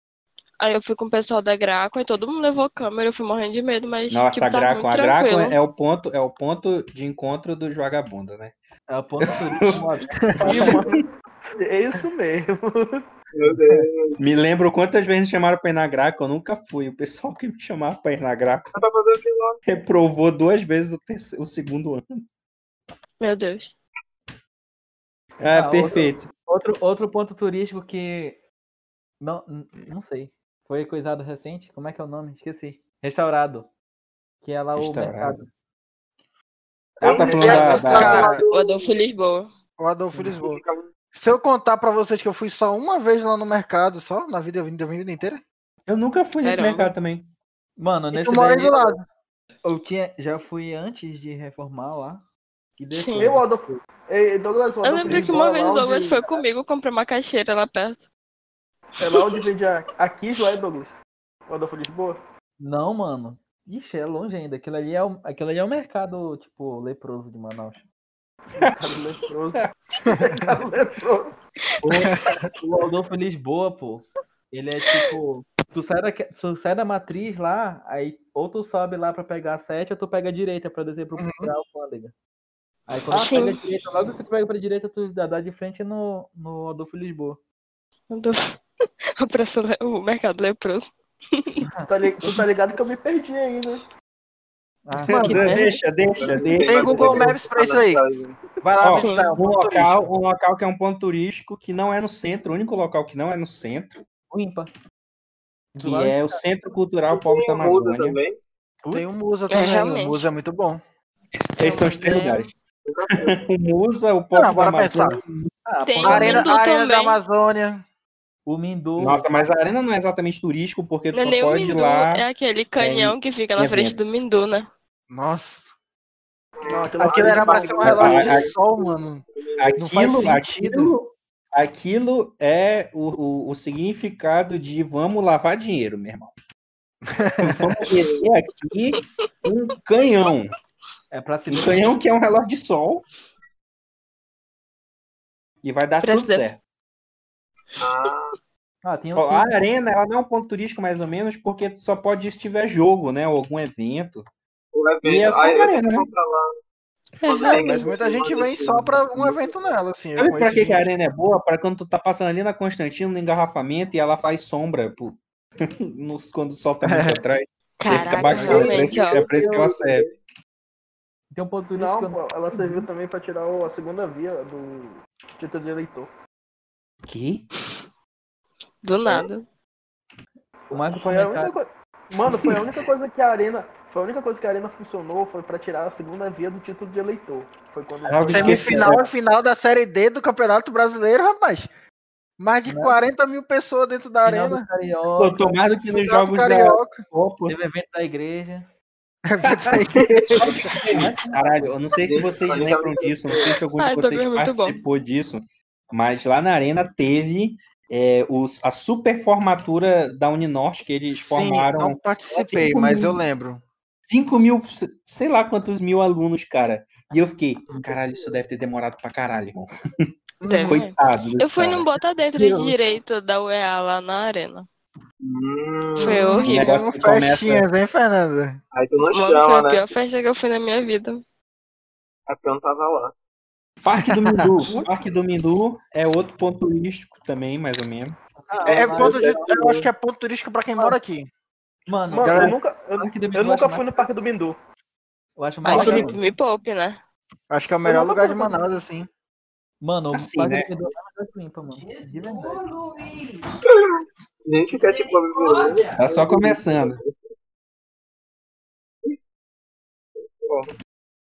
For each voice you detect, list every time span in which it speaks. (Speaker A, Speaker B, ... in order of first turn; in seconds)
Speaker A: 0.6-5.6, 23.2-23.7, 37.4-39.5, 46.4-46.9, 52.9-53.3, 54.8-58.1, 59.0-59.4, 83.2-83.6, 88.1-88.6, 89.2-91.6, 95.3-95.7, 99.0-99.3, 109.5-110.3, 111.6-112.5, 115.8-117.2, 121.1-124.7, 146.0-146.5, 157.2-157.7, 167.8-169.3, 178.8-179.4, 203.8-204.8, 220.5-224.7, 226.0-226.8, 229.1-231.2, 245.7-247.0
Speaker B: 4.1-8.6, 9.2-9.9, 10.5-10.8, 14.2-18.7, 19.6-22.2, 25.4-26.3, 34.8-35.4, 37.0-38.4, 45.9-47.3, 95.0-97.4, 98.8-104.0, 105.8-108.2, 111.3-112.5, 113.2-115.5, 119.0-122.2, 122.8-124.2, 127.8-128.5, 129.6-136.3, 137.4-140.6, 141.5-143.1, 145.6-146.6, 149.2-154.2, 155.0-156.1, 160.2-170.1, 177.1-177.5, 188.1-189.0, 195.2-197.6, 199.4-213.2, 214.1-220.1, 220.7-222.8, 226.4-227.7, 233.8-238.2, 250.1-250.7, 256.0-257.0
Speaker C: 8.9-10.8, 25.5-28.4, 29.2-33.7, 34.4-35.5, 47.8-49.0, 49.6-52.2, 52.8-53.8, 55.1-55.3, 62.6-67.8, 71.8-82.1, 82.9-87.4, 91.6-92.5, 94.9-95.6, 104.3-104.7, 105.7-106.4, 108.8-109.2, 111.8-112.4, 115.7-116.5, 118.5-119.4, 141.1-141.9, 148.8-149.6, 168.3-168.7, 171.3-172.9, 180.7-181.5, 188.3-188.9, 192.7-193.0, 194.2-195.6, 197.5-198.7, 200.4-201.2, 238.5-239.7, 241.9-244.1, 245.4-246.2, 249.8-252.6
Speaker D: 10.3-10.8, 37.0-38.4, 39.8-40.6, 41.1-45.4, 48.1-49.1, 72.1-72.5, 81.2-81.5, 95.0-95.6, 96.6-98.0, 98.6-100.1, 108.9-110.8, 114.3-115.2, 116.0-117.8, 125.1-125.7, 127.0-129.2, 129.8-130.9, 137.1-137.7, 157.4-160.9, 166.8-167.2, 188.3-191.7, 192.4-194.7, 195.8-197.0, 199.3-201.1, 211.1-213.6, 220.4-220.8, 226.1-228.6, 234.1-234.5, 238.7-241.3, 242.2-242.6, 247.5-249.1
Speaker E: 10.4-13.0, 37.2-37.9, 53.2-56.4, 59.0-61.0, 61.5-62.2, 68.6-71.4, 83.1-83.4, 91.9-93.8, 126.7-128.1, 171.8-176.1, 180.7-188.8, 242.1-244.6, 247.8-248.6
Speaker F: 13.3-14.2, 18.7-19.6, 37.0-38.9, 40.3-40.9, 96.2-98.4, 107.1-108.4, 112.9-113.4, 126.6-129.8, 137.9-138.2, 147.8-148.4, 154.7-156.5, 157.2-159.8, 168.4-170.1, 202.0-203.6, 217.7-218.2, 225.2-226.5, 228.7-229.9, 232.3-233.1, 238.6-239.9, 253.7-257.2, 260.3-260.7
Speaker G: 251.7-253.6, 254.8-256.1